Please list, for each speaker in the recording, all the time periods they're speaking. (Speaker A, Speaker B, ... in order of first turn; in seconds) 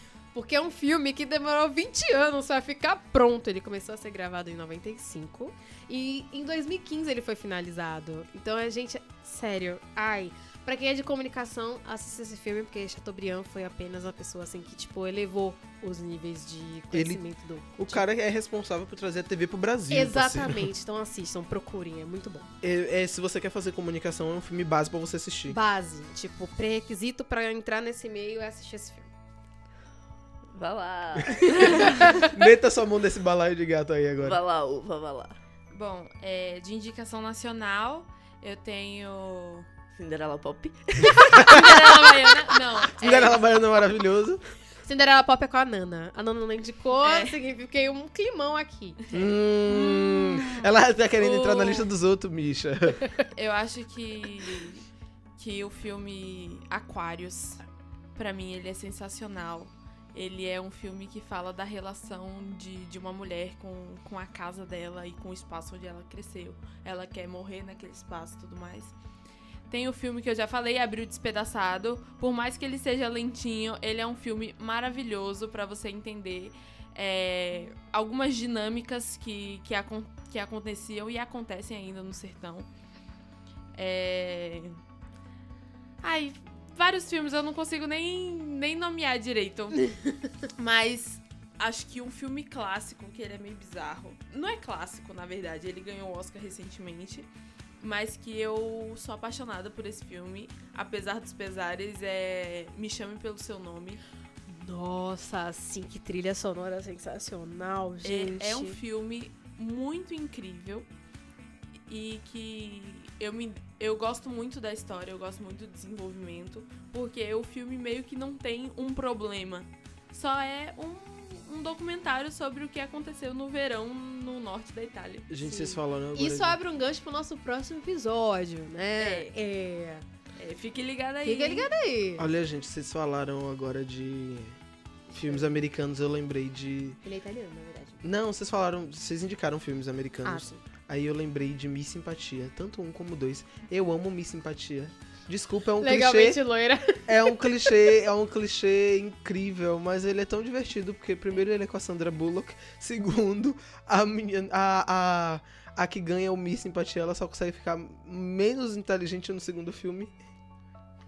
Speaker A: 0.3-18.1, 19.9-22.5, 25.5-29.1, 31.3-32.3, 44.8-49.0, 104.5-108.8, 125.4-130.1, 131.2-132.3, 135.1-135.6, 137.0-138.0, 140.2-140.6, 145.8-147.8
Speaker B: 16.9-17.2, 17.8-20.7, 22.6-25.6, 32.2-34.4, 41.4-41.6, 43.0-44.4, 49.1-53.1, 125.3-126.6, 132.2-134.6, 135.1-137.0, 138.0-146.4, 147.1-160.1
Speaker C: 30.5-32.3, 34.2-35.4, 40.0-42.3
Speaker D: 35.7-39.7, 41.4-43.5, 47.0-47.4, 49.1-51.9, 53.3-54.9, 55.4-57.6, 58.2-69.0, 69.7-82.7, 83.8-84.8, 86.0-89.8, 90.5-97.3, 97.8-104.0, 108.0-110.9, 111.9-125.3, 129.0-129.3, 130.3-131.7